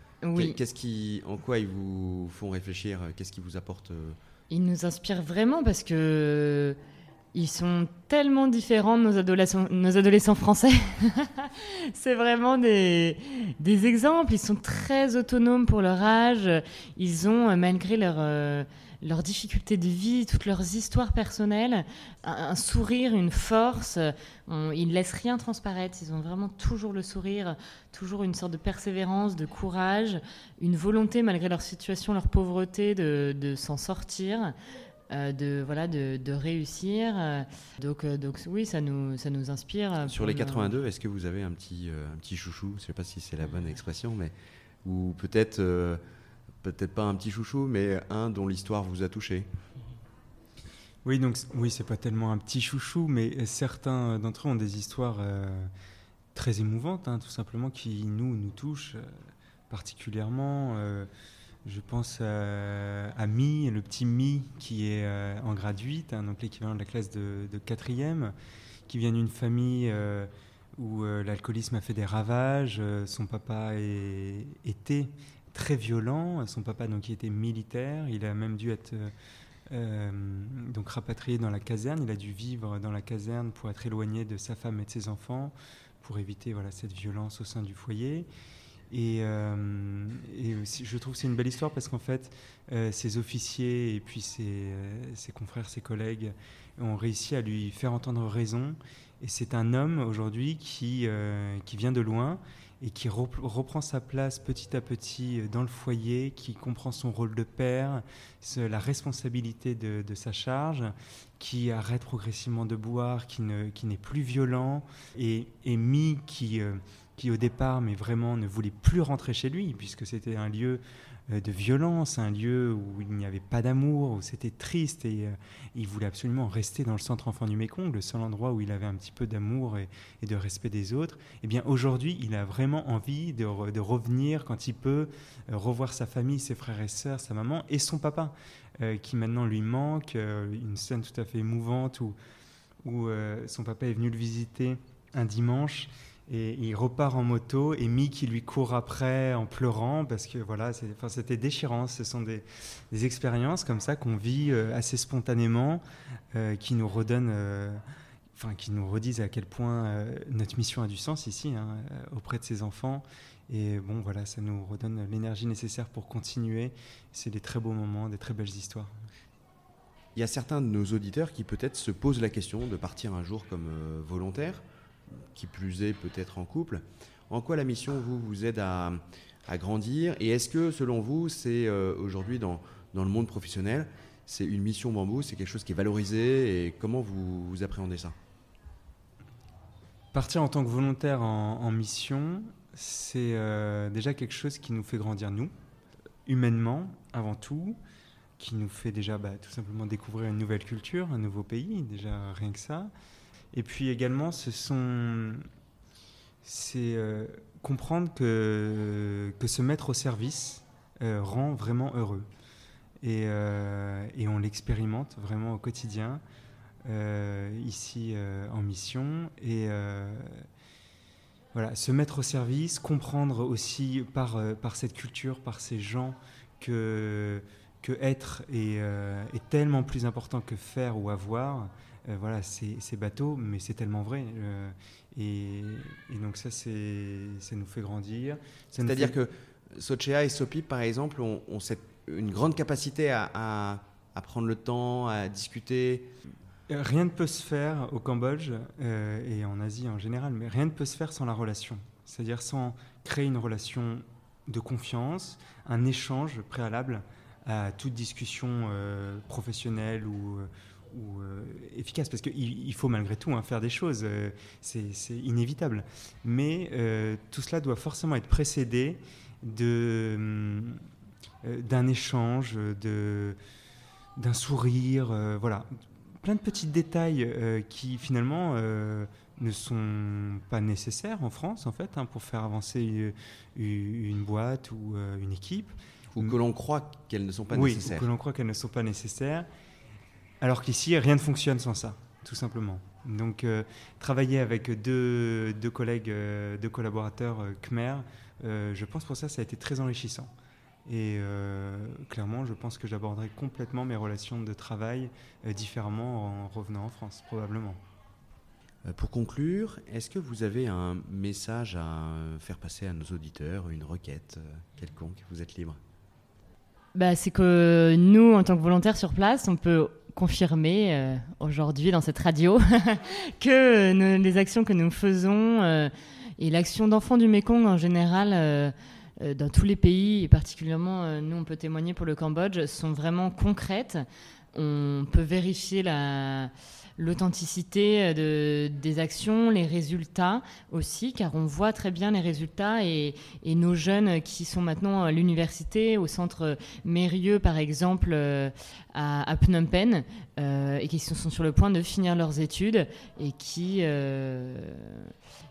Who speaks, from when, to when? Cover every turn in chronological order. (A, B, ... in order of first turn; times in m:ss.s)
0:00.2-0:00.6 A
0:00.3-0:04.2 B
0:04.5-0:06.8 A
0:07.3-0:34.5 A
0:35.1-0:40.7 A
0:40.0-0:44.3 B
0:44.8-0:46.0 B
0:46.6-0:49.5 B
0:51.0-0:55.7 C
0:56.3-0:59.1 C
0:59.7-1:01.1 C
1:01.6-1:08.3 C
1:08.9-1:19.1 C
1:19.7-1:28.3 C
1:28.9-2:22.2 C
2:22.8-2:35.8 C
2:36.3-2:37.8 C
2:38.3-2:48.9 C
2:50.1-2:54.6 B
2:55.3-3:08.1 B
3:10.1-3:15.5 C
3:16.2-3:17.8 C
3:18.4-3:22.9 C
3:23.5-3:25.4 C
3:26.4-3:32.3 C
3:33.0-3:36.2 C
3:36.8-3:40.4 C
3:41.5-3:59.1 C
3:58.8-4:06.1 B
4:06.7-4:30.8 C
4:31.4-4:33.4 C
4:34.2-4:35.7 C
4:36.2-4:46.4 C
4:46.1-4:48.0 B
4:47.5-4:49.5 C
4:50.4-5:00.3 C
5:00.8-5:07.8 C
5:08.9-5:15.8 B
5:16.9-5:55.1 A